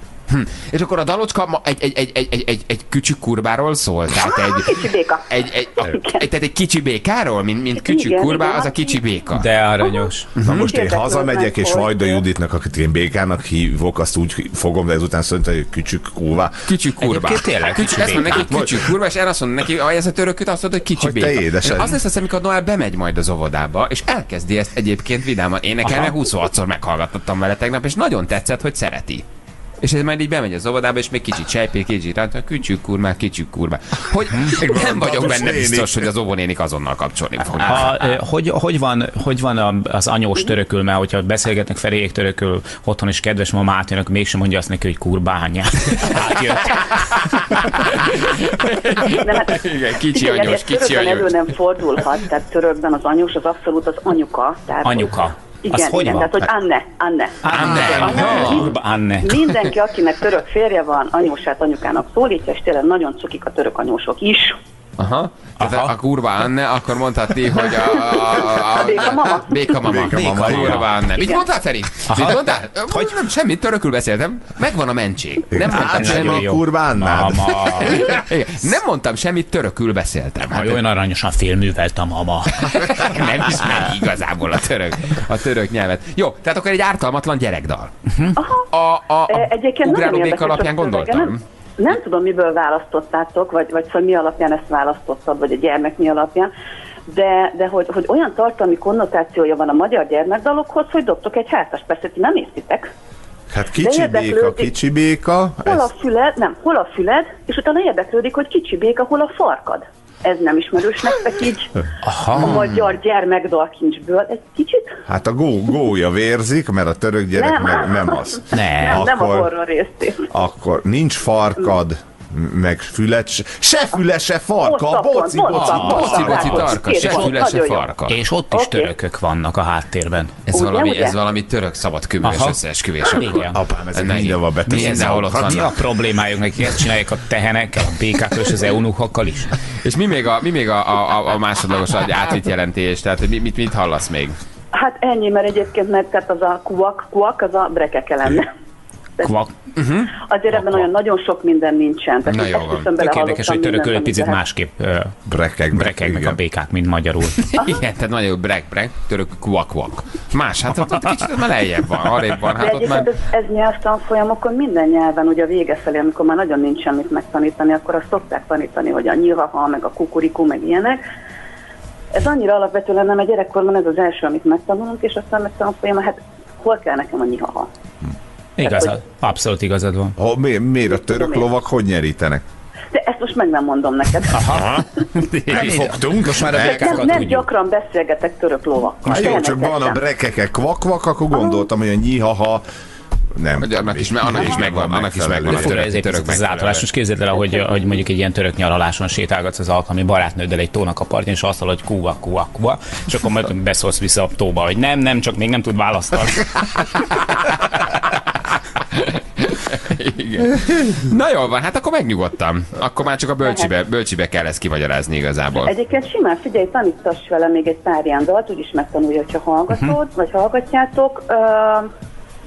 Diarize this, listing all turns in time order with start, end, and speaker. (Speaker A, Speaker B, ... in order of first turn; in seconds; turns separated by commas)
Speaker A: 0.3-9.5, Speaker B: 4.1-6.3, Speaker B: 7.8-9.0, Speaker C: 9.3-10.3, Speaker A: 10.4-10.7, Speaker D: 10.4-16.6, Speaker B: 10.6-12.2, Speaker A: 16.7-29.2, Speaker C: 17.0-18.6, Speaker D: 18.3-18.9, Speaker D: 21.0-22.0, Speaker C: 25.9-26.1, Speaker A: 29.8-38.2, Speaker D: 34.4-36.1, Speaker C: 37.7-47.0, Speaker A: 47.5-51.4, Speaker B: 49.0-64.6, Speaker C: 54.8-56.5, Speaker C: 57.4-59.5, Speaker A: 57.5-58.7, Speaker A: 65.0-76.5, Speaker C: 65.6-65.9, Speaker B: 68.4-69.8, Speaker D: 69.8-70.9, Speaker C: 70.1-70.9, Speaker C: 72.1-73.2, Speaker D: 75.5-77.9, Speaker C: 75.7-78.1, Speaker A: 77.8-80.8, Speaker C: 80.5-82.6, Speaker A: 82.6-87.9, Speaker C: 88.1-88.4, Speaker B: 88.4-88.7, Speaker A: 88.7-91.4, Speaker B: 89.3-96.5, Speaker B: 97.1-102.9, Speaker D: 103.5-105.9, Speaker B: 103.8-104.7, Speaker B: 105.6-111.8, Speaker C: 112.0-112.7, Speaker B: 112.3-115.0, Speaker D: 115.1-119.5, Speaker B: 117.4-120.3, Speaker C: 118.5-119.1, Speaker D: 120.3-126.8, Speaker B: 124.6-127.9, Speaker A: 125.5-128.2, Speaker C: 125.5-126.9, Speaker C: 128.1-130.3, Speaker B: 128.5-128.9, Speaker A: 130.5-135.7, Speaker B: 130.5-131.2, Speaker C: 132.2-133.6, Speaker D: 133.4-135.7, Speaker C: 134.1-139.5, Speaker A: 139.8-144.4, Speaker B: 144.7-148.5, Speaker C: 149.2-149.5, Speaker A: 149.8-150.1, Speaker B: 150.2-154.4, Speaker C: 150.5-150.8, Speaker A: 152.3-152.9, Speaker C: 153.0-155.2, Speaker D: 155.3-156.4, Speaker C: 155.7-157.4, Speaker A: 157.4-163.1, Speaker B: 157.6-157.9, Speaker B: 162.6-171.0, Speaker B: 172.2-177.7, Speaker C: 178.6-180.2, Speaker B: 178.6-179.0, Speaker D: 180.2-182.4, Speaker B: 180.9-181.5, Speaker B: 182.9-184.6, Speaker C: 184.3-184.8, Speaker D: 184.5-184.9, Speaker A: 185.2-185.9, Speaker D: 185.5-187.0, Speaker C: 185.5-187.5, Speaker B: 186.5-190.0, Speaker C: 189.1-189.4, Speaker D: 189.1-192.6, Speaker B: 191.3-191.7, Speaker D: 193.4-195.8, Speaker A: 193.6-196.9, Speaker C: 195.5-207.0, Speaker A: 208.9-215.8, Speaker B: 213.4-213.7, Speaker B: 215.6-221.9